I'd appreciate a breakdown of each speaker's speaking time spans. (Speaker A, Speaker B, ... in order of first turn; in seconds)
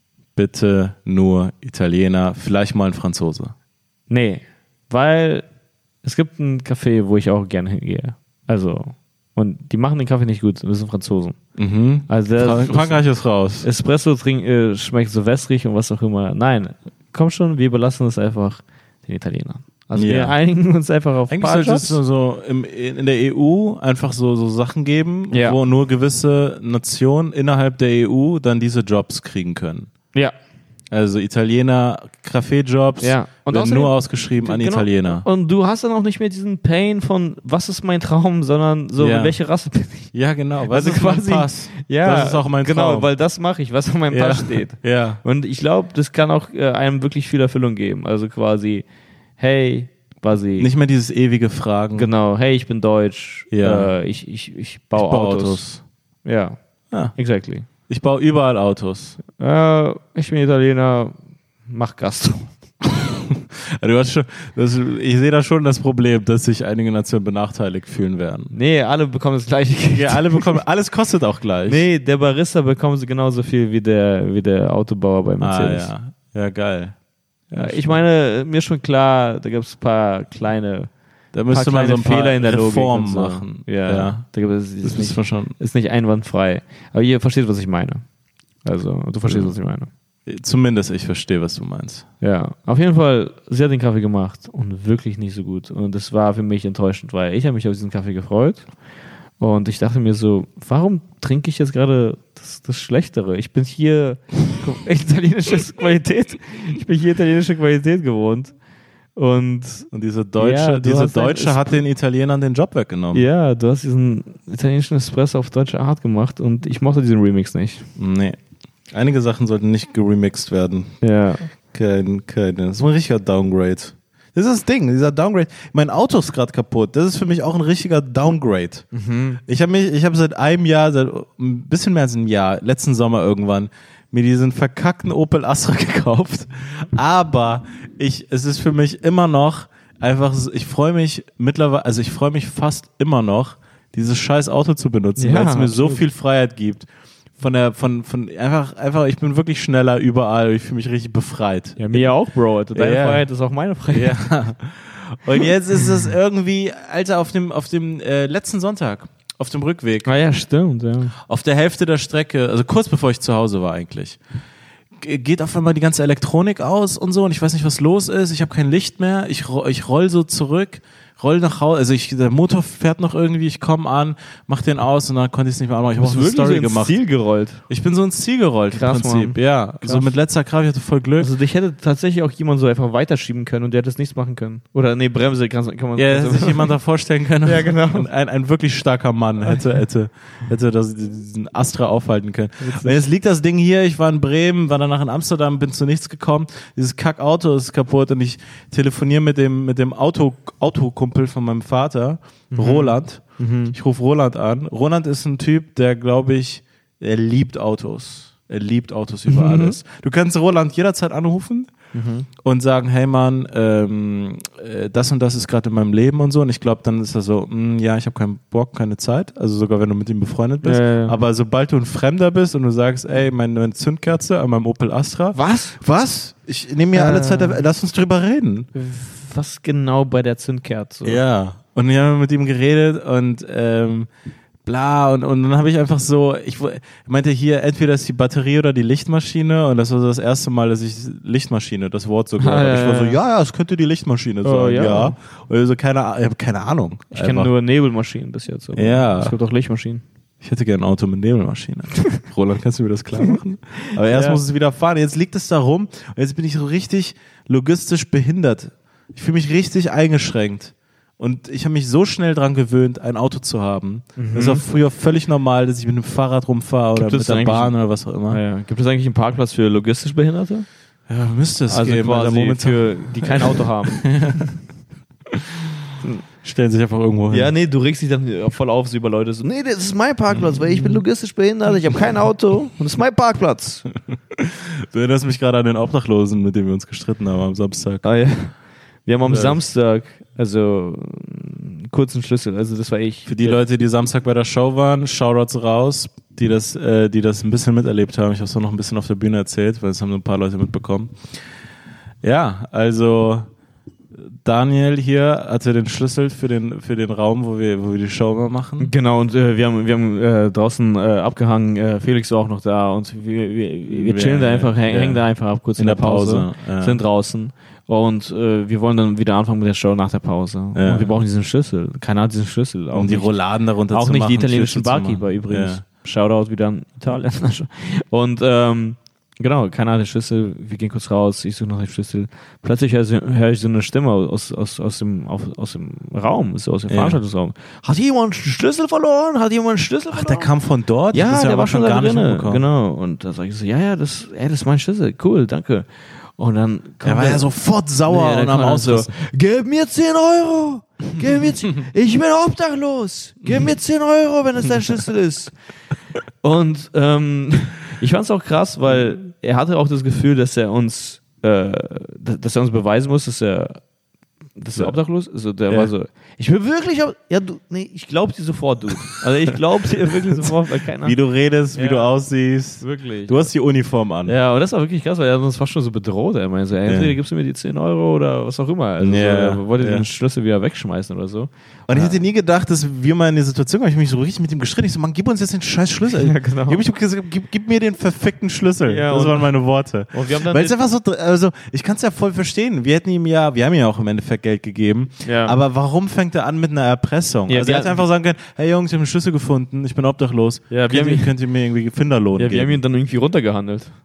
Speaker A: 0.3-3.5, 11.6-13.7, 19.9-20.4, 21.3-29.9, 30.9-35.2, 39.0-39.3, 40.1-43.1, 44.1-45.2, 50.6-52.1, 53.5-53.9, 55.0-55.8, 57.9-59.2, 62.8-68.5, 69.9-71.8, 75.4-77.0, 77.5-78.0, 81.3-84.2, 84.8-85.5, 89.2-89.5, 90.2-92.0, 109.9-113.2, 118.0-118.4, 118.9-120.9, 121.7-128.9, 129.4-146.9, 147.4-152.1, 152.7-153.2, 153.9-160.1, 161.2-164.2, 165.0-177.0, 177.7-181.3, 185.9-211.7, 212.4-228.7, 231.0-234.1, 234.7-247.5, 248.7-249.3, 250.4-268.4, 271.1-274.5, 275.3-275.6, 276.4-277.5, 280.3-281.0, 281.7-282.0, 284.1-288.1, 289.2-289.6, 293.3-301.2, 302.2-303.5, 304.1-308.9, 313.9-315.2, 315.8-317.0, 320.7-321.1, 322.9-325.8, 336.9-337.2, 340.1-342.6, 347.0-349.1, 371.0-374.3, 376.9-377.1, 379.0-380.1, 381.9-402.8
Speaker B: 4.1-5.4, 6.0-11.4, 12.1-13.0, 13.6-22.0, 25.3-25.6, 33.0-40.1, 40.7-48.9, 49.4-50.7, 52.0-55.6, 56.2-56.5, 57.1-57.7, 59.4-61.1, 61.7-62.5, 68.5-70.6, 71.7-75.9, 77.5-80.9, 81.5-88.0, 88.6-89.9, 92.2-98.7, 99.4-108.5, 109.2-111.8, 113.1-117.9, 121.0-121.5, 128.9-129.4, 145.2-146.0, 151.8-154.3, 160.1-161.1, 176.0-177.6, 178.7-180.1, 181.2-186.8, 187.4-188.1, 192.6-193.0, 202.5-203.7, 209.3-209.8, 211.9-212.3, 220.6-221.2, 225.3-225.8, 226.9-227.6, 228.7-231.2, 242.4-243.2, 244.4-245.2, 247.1-250.0, 253.2-254.4, 264.2-264.6, 266.9-267.7, 268.3-270.6, 271.7-274.5, 277.3-283.8, 288.0-288.5, 289.1-293.6, 308.8-323.3, 323.9-340.5, 341.1-347.5, 348.1-355.5, 356.4-363.8, 364.6-371.2, 371.7-372.1, 372.8-373.5, 374.2-382.2, 386.1-386.8, 388.9-389.5, 390.1-390.8, 395.2-395.6, 397.5-398.0, 400.7-401.3, 402.4-403.9